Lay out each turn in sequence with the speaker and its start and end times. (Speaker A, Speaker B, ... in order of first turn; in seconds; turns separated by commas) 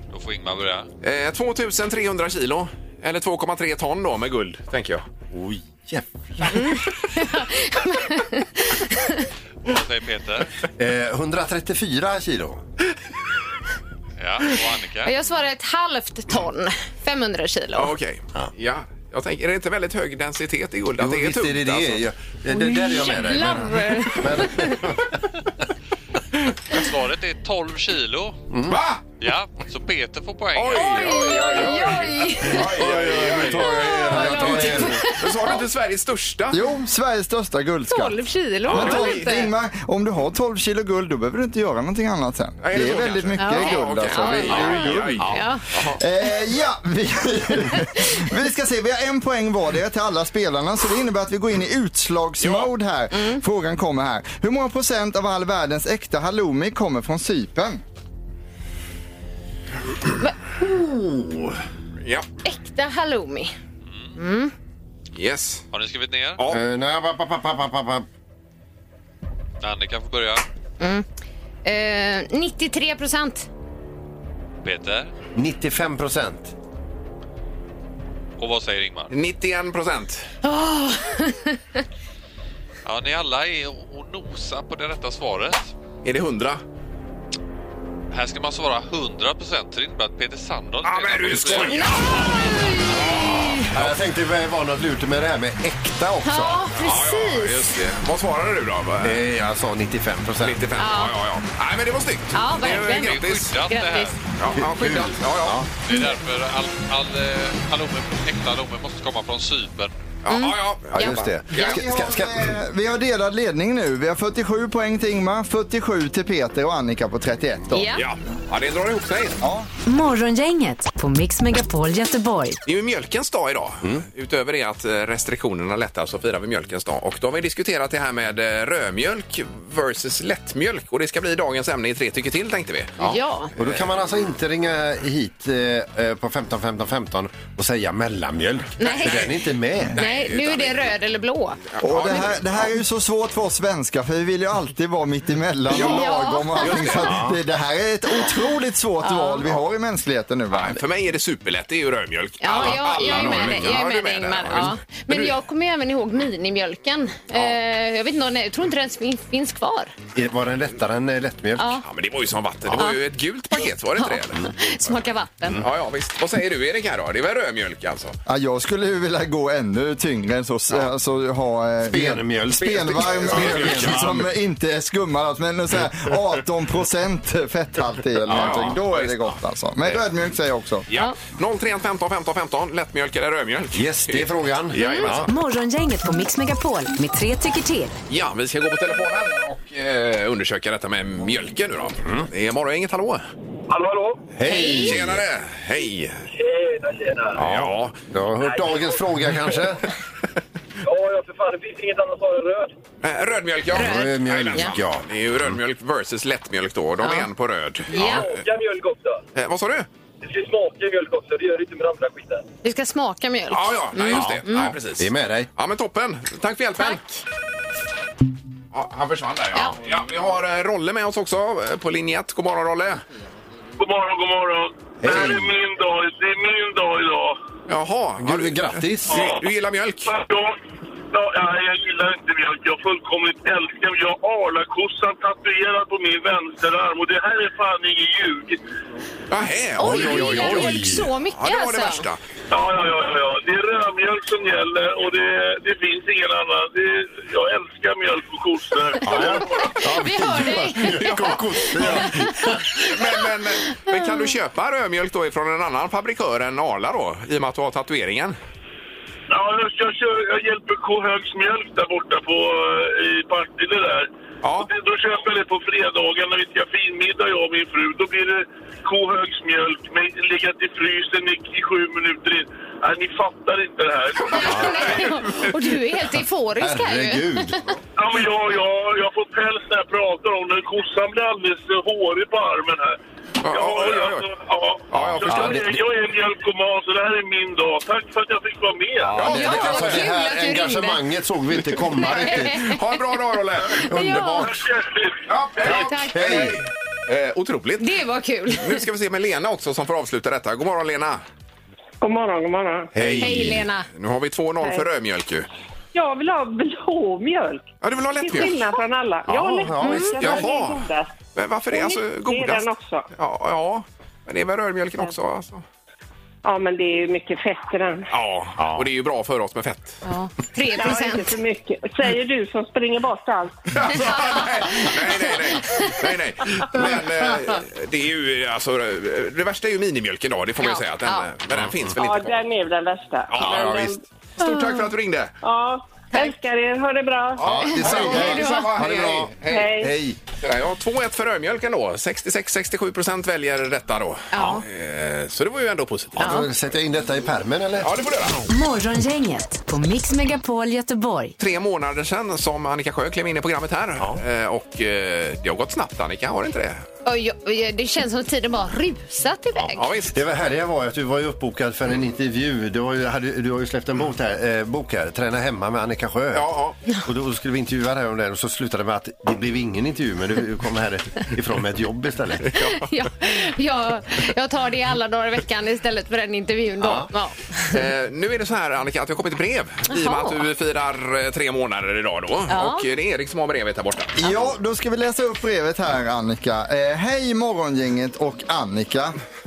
Speaker A: 0.1-0.9, Speaker B: 1.0-5.0, Speaker C: 5.3-6.7, Speaker D: 6.5-9.3, Speaker A: 9.7-10.5, Speaker C: 10.8-12.6, Speaker A: 14.2-15.1, Speaker D: 15.0-17.9, Speaker B: 17.8-22.1, Speaker C: 21.0-25.2, Speaker D: 22.5-24.9, Speaker A: 26.7-28.4, Speaker C: 28.5-28.8, Speaker B: 28.7-29.0, Speaker A: 29.2-32.3, Speaker B: 30.6-36.6, Speaker D: 30.7-32.8, Speaker C: 32.5-35.6, Speaker D: 33.4-35.4, Speaker E: 34.3-34.9, Speaker E: 36.5-45.3, Speaker D: 37.9-39.5, Speaker B: 38.7-39.5, Speaker B: 42.6-46.0, Speaker D: 43.4-45.6, Speaker C: 44.5-45.4, Speaker E: 46.0-57.8, Speaker D: 47.8-48.2, Speaker B: 52.4-52.7, Speaker D: 53.1-53.4, Speaker D: 60.2-60.9, Speaker D: 62.4-63.5, Speaker D: 64.2-64.5, Speaker B: 65.2-65.7, Speaker A: 65.7-66.4, Speaker C: 66.5-68.1, Speaker A: 69.6-70.4, Speaker D: 70.8-71.1, Speaker D: 71.7-73.5, Speaker A: 74.6-75.1, Speaker C: 75.3-76.5, Speaker A: 78.4-79.1, Speaker B: 79.1-80.3, Speaker D: 80.4-81.8, Speaker A: 82.8-85.7, Speaker B: 86.0-86.6, Speaker A: 88.1-92.3, Speaker B: 90.8-92.3, Speaker D: 91.5-93.7, Speaker B: 92.9-93.9, Speaker C: 93.7-96.6, Speaker D: 96.2-97.7, Speaker B: 96.8-99.2, Speaker C: 99.0-100.6, Speaker B: 100.4-103.6, Speaker D: 100.8-101.2, Speaker D: 102.3-104.1, Speaker A: 102.6-104.2, Speaker B: 104.4-105.7, Speaker C: 104.6-105.7, Speaker A: 105.9-109.9, Speaker B: 110.2-111.8, Speaker D: 110.3-111.8, Speaker C: 110.9-112.6, Speaker E: 111.5-117.9, Speaker D: 117.7-118.0, Speaker B: 118.0-119.4, Speaker E: 119.4-119.7, Speaker F: 119.9-122.6, Speaker B: 122.7-133.0, Speaker C: 133.0-140.0, Speaker D: 133.0-133.5, Speaker D: 138.8-139.3, Speaker B: 138.8-139.3, Speaker B: 139.9-141.0, Speaker D: 139.9-142.1, Speaker B: 141.7-142.6, Speaker E: 141.8-150.8, Speaker D: 145.7-147.1, Speaker B: 145.7-146.1, Speaker B: 146.6-147.1, Speaker C: 146.8-147.4, Speaker D: 149.0-149.4, Speaker B: 150.5-155.3, Speaker D: 152.4-159.9, Speaker C: 160.2-161.8, Speaker D: 161.6-161.8, Speaker B: 161.8-164.6, Speaker D: 162.7-163.0, Speaker D: 164.0-165.6, Speaker B: 165.6-168.2, Speaker E: 168.3-180.9, Speaker C: 171.9-174.3, Speaker B: 173.3-174.0, Speaker C: 178.3-178.8, Speaker B: 178.3-180.0, Speaker B: 180.9-185.3, Speaker C: 183.7-185.3, Speaker D: 184.8-185.1, Speaker F: 185.2-188.0, Speaker B: 188.1-193.2, Speaker G: 193.7-194.3, Speaker C: 194.3-195.2, Speaker D: 194.5-195.0, Speaker B: 194.6-196.2, Speaker G: 196.3-197.4, Speaker B: 197.4-198.0, Speaker C: 197.4-199.9, Speaker G: 198.4-199.0, Speaker G: 200.8-202.7, Speaker B: 203.0-208.4, Speaker C: 203.7-205.6, Speaker D: 203.7-204.8, Speaker D: 207.0-207.3, Speaker D: 207.9-208.3, Speaker G: 208.0-209.2, Speaker B: 209.3-209.9, Speaker G: 210.2-212.4, Speaker D: 212.6-214.8, Speaker B: 213.5-217.0, Speaker C: 214.1-215.5, Speaker D: 216.8-217.2, Speaker B: 218.7-223.0, Speaker H: 223.8-227.4, Speaker C: 225.0-225.5, Speaker B: 227.7-230.2, Speaker C: 228.2-229.3, Speaker H: 230.1-230.6, Speaker H: 231.1-238.6, Speaker B: 239.3-242.2, Speaker D: 239.8-242.1, Speaker C: 239.8-241.1, Speaker H: 242.5-249.8, Speaker C: 249.0-252.7, Speaker D: 249.4-252.9, Speaker B: 252.8-258.4, Speaker D: 253.9-254.2, Speaker H: 259.3-264.1, Speaker B: 264.4-264.7, Speaker H: 264.6-275.0, Speaker D: 274.3-277.7, Speaker C: 274.4-275.0, Speaker B: 274.4-275.5, Speaker C: 276.6-277.8, Speaker H: 278.0-289.3, Speaker B: 283.4-284.3, Speaker B: 284.9-285.7, Speaker C: 284.9-285.9, Speaker C: 289.0-292.8, Speaker B: 289.1-290.1, Speaker D: 289.2-291.0, Speaker D: 292.0-292.8, Speaker B: 292.0-293.9, Speaker C: 293.7-294.7, Speaker D: 293.9-294.5, Speaker H: 294.4-295.6, Speaker B: 295.3-298.0, Speaker D: 295.6-296.6, Speaker C: 295.6-296.6, Speaker D: 297.8-298.8, Speaker B: 298.5-301.2, Speaker I: 302.0-302.9, Speaker C: 302.9-303.6, Speaker B: 303.0-305.5, Speaker D: 303.2-303.9, Speaker I: 305.9-307.7, Speaker B: 307.8-308.7, Speaker I: 308.2-311.1, Speaker C: 309.3-310.5, Speaker D: 309.8-310.2, Speaker B: 310.2-315.6, Speaker I: 311.7-313.1, Speaker I: 316.4-318.1, Speaker B: 318.1-320.0, Speaker C: 318.6-318.9, Speaker D: 320.0-321.4, Speaker I: 320.7-323.6, Speaker B: 323.7-332.4, Speaker D: 324.1-324.4, Speaker D: 325.6-325.9, Speaker D: 330.6-331.3, Speaker C: 331.6-331.9, Speaker I: 332.0-334.0, Speaker B: 333.3-335.3, Speaker C: 333.4-333.9, Speaker D: 334.4-334.8, Speaker I: 335.4-337.4, Speaker B: 337.4-339.9, Speaker C: 337.4-340.2, Speaker D: 337.7-338.7, Speaker I: 339.5-339.9, Speaker B: 340.4-346.4, Speaker D: 344.3-344.6, Speaker C: 346.2-347.9, Speaker D: 346.2-346.5, Speaker B: 347.8-348.4, Speaker F: 348.5-351.4, Speaker B: 351.4-356.8, Speaker D: 357.1-359.9, Speaker B: 359.7-360.2, Speaker C: 360.1-366.5, Speaker B: 366.3-366.8, Speaker C: 367.1-372.6, Speaker B: 372.5-372.8, Speaker D: 372.6-377.8, Speaker C: 376.8-377.1, Speaker B: 377.7-384.3, Speaker D: 379.9-380.5, Speaker D: 382.5-382.9, Speaker E: 384.2-389.2